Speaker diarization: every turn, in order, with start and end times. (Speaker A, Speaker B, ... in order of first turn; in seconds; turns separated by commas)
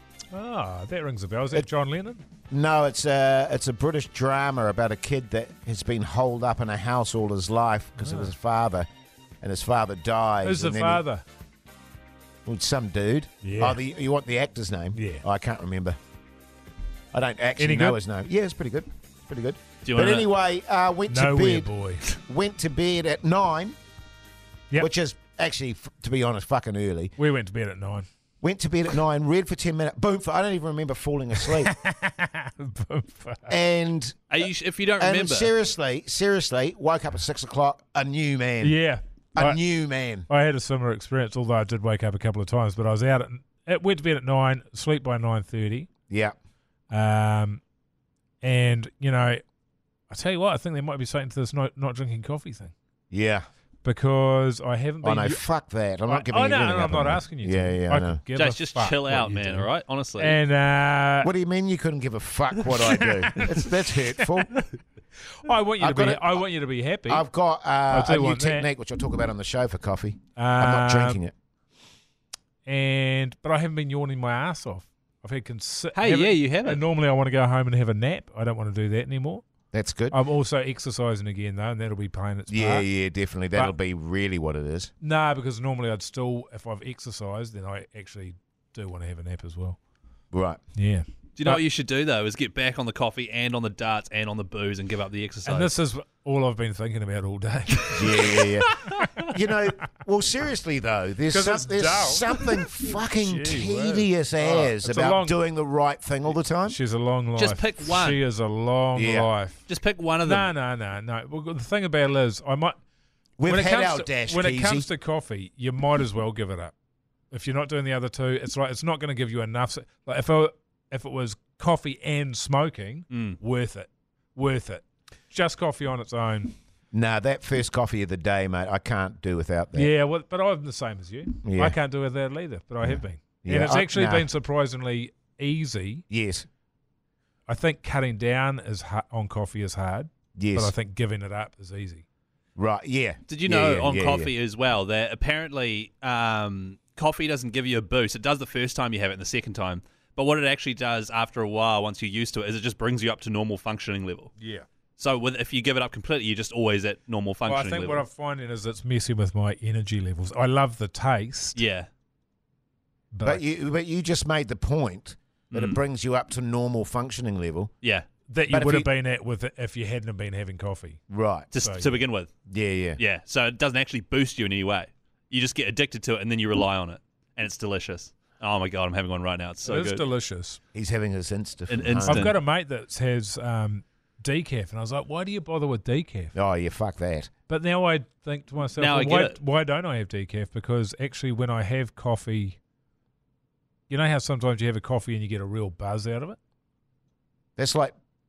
Speaker A: 0.3-2.2, Speaker B: 2.5-8.9, Speaker A: 8.0-8.3, Speaker B: 9.4-11.0, Speaker A: 10.4-11.2, Speaker B: 12.5-16.0, Speaker A: 13.4-13.8, Speaker A: 14.9-15.2, Speaker B: 17.1-23.8, Speaker A: 17.6-18.0, Speaker C: 19.8-20.3, Speaker A: 21.1-22.1, Speaker B: 24.8-27.1, Speaker A: 27.2-28.1, Speaker B: 28.4-31.7, Speaker A: 31.4-33.6, Speaker B: 33.5-34.5, Speaker C: 34.3-35.5, Speaker B: 35.0-38.8, Speaker A: 38.6-39.6, Speaker B: 39.4-40.3, Speaker A: 40.3-45.9, Speaker B: 46.1-46.4, Speaker A: 46.9-47.6, Speaker A: 48.4-49.4, Speaker A: 50.1-52.7, Speaker B: 53.1-53.5, Speaker A: 53.8-55.4, Speaker B: 55.0-58.2, Speaker A: 56.1-61.3, Speaker C: 58.4-60.4, Speaker B: 61.2-64.5, Speaker A: 62.7-64.7, Speaker A: 65.4-67.2, Speaker B: 65.8-66.4, Speaker B: 67.1-71.3, Speaker A: 67.9-68.7, Speaker A: 70.4-71.2, Speaker A: 72.7-79.4, Speaker C: 76.0-76.8, Speaker B: 79.7-80.2, Speaker A: 80.1-82.9, Speaker B: 82.5-84.9, Speaker A: 85.0-89.8, Speaker B: 90.3-90.6, Speaker A: 90.8-91.6, Speaker C: 91.4-95.7, Speaker A: 95.5-99.2, Speaker B: 98.0-98.7, Speaker C: 98.7-99.1, Speaker B: 99.2-106.8, Speaker A: 101.3-105.4, Speaker A: 106.7-109.7, Speaker C: 107.4-108.2, Speaker B: 109.0-109.3, Speaker C: 109.7-110.5, Speaker A: 110.2-112.8, Speaker B: 113.4-114.9, Speaker A: 113.5-116.7, Speaker A: 117.3-126.5, Speaker C: 123.1-123.4, Speaker B: 126.9-129.9, Speaker A: 129.7-136.0, Speaker B: 131.4-131.8, Speaker B: 132.8-134.3, Speaker B: 136.1-136.5, Speaker A: 137.5-142.0, Speaker B: 140.4-140.7, Speaker B: 142.6-144.3, Speaker C: 143.3-154.3, Speaker A: 154.4-154.7, Speaker C: 155.0-158.0, Speaker A: 157.4-161.6, Speaker C: 161.6-161.9, Speaker A: 163.1-163.4, Speaker B: 163.2-167.7, Speaker C: 165.5-165.8, Speaker C: 167.8-168.1, Speaker A: 168.3-171.0, Speaker B: 168.5-168.9, Speaker B: 171.1-171.5, Speaker C: 171.5-172.3, Speaker A: 171.6-172.0, Speaker B: 172.5-173.0, Speaker C: 173.0-180.1, Speaker A: 179.7-180.6, Speaker B: 180.7-182.3, Speaker C: 181.7-182.4, Speaker A: 182.1-186.3, Speaker B: 186.3-187.3, Speaker A: 187.5-192.6, Speaker C: 188.8-189.4, Speaker A: 193.9-196.4, Speaker B: 197.6-197.9